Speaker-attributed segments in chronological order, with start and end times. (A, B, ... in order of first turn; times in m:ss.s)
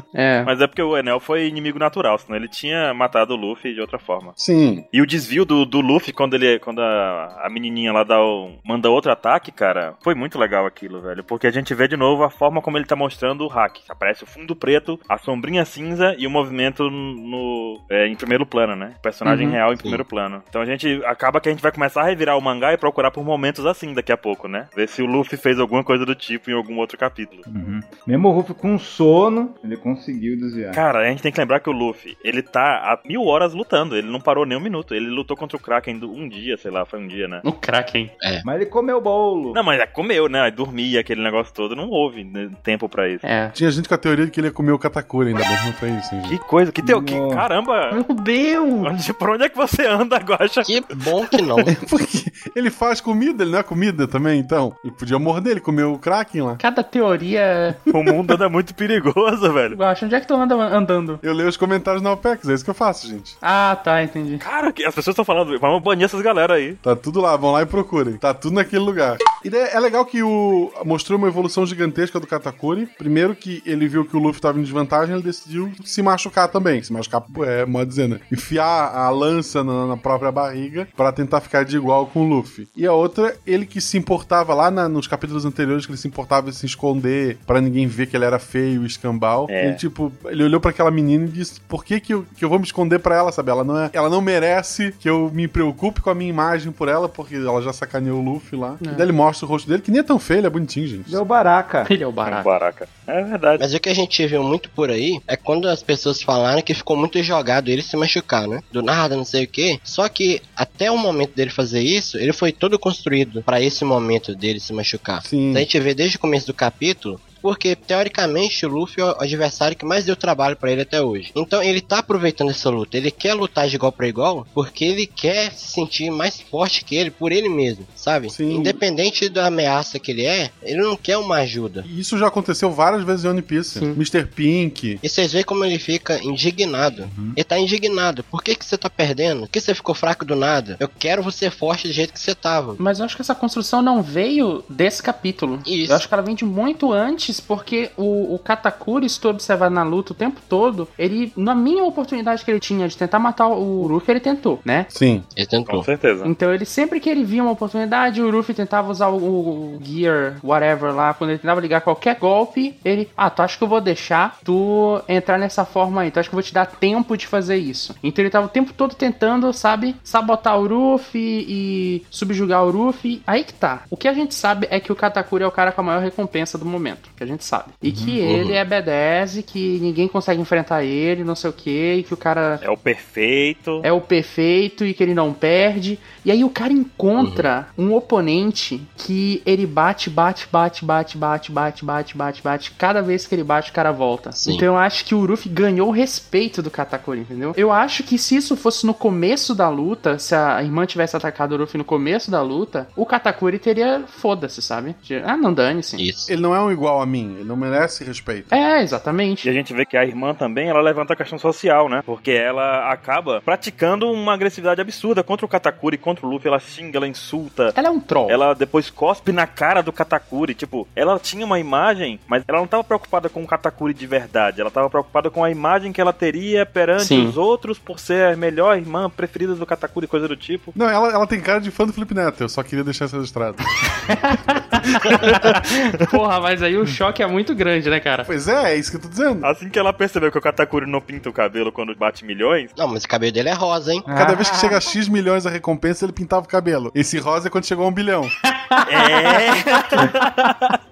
0:00.1-0:00.5 A
0:00.4-0:04.4 B
0:04.4-0:04.8 C
0:04.9-0:27.5 B
0:19.2-0:19.6 A
0:27.5-0:30.8 D
0:30.7-0:37.4 B
0:37.4-0:38.1 A
0:38.4-0:39.6 D
0:39.5-0:43.2 B
0:43.2-0:43.6 A
0:43.5-0:46.4 C
0:46.2-0:48.0 B
0:46.8-0:47.5 D
0:47.9-0:48.9 A
0:48.8-0:50.8 B
0:50.6-0:51.7 E
0:51.7-0:56.6 C
0:56.6-0:57.8 A
0:57.9-0:59.8 B
0:59.7-1:01.2 A
1:01.2-1:03.4 C
1:03.4-1:04.4 A
1:04.4-1:06.8 B
1:06.8-1:41.2 C
1:29.5-1:29.8 B
1:38.8-1:39.1 A
1:41.1-1:41.9 D
1:41.9-1:42.5 A
1:42.2-1:43.6 B
1:43.6-2:11.9 E
1:55.2-1:55.7 C
2:08.3-2:08.8 C
2:11.8-2:15.0 C
2:13.7-2:14.0 A
2:15.0-2:22.8 E
2:17.0-2:17.4 D
2:22.8-2:34.9 A
2:25.6-2:26.0 E
2:34.9-2:35.3 C
2:35.4-2:35.9 E
2:35.7-2:36.3 B
2:36.2-3:02.6 A
2:57.8-2:58.2 D
2:58.2-2:58.6 E
3:02.6-3:03.9 B
3:03.8-3:26.0 A
3:07.2-3:07.5 E
3:14.4-3:14.6 E
3:26.0-3:26.3 E
3:26.3-3:28.5 C
3:28.5-3:29.5 A
3:29.4-3:37.8 B
3:37.7-3:38.4 A
3:38.3-3:50.7 B
3:47.0-3:47.4 A
3:50.8-3:53.7 C
3:54.1-3:58.3 A
3:55.3-3:55.6 B
3:58.3-3:59.5 C
3:59.4-4:02.7 B
4:02.8-4:04.1 E
4:04.1-4:04.9 D
4:04.1-4:08.3 C
4:08.4-4:10.3 A
4:08.9-4:10.8 B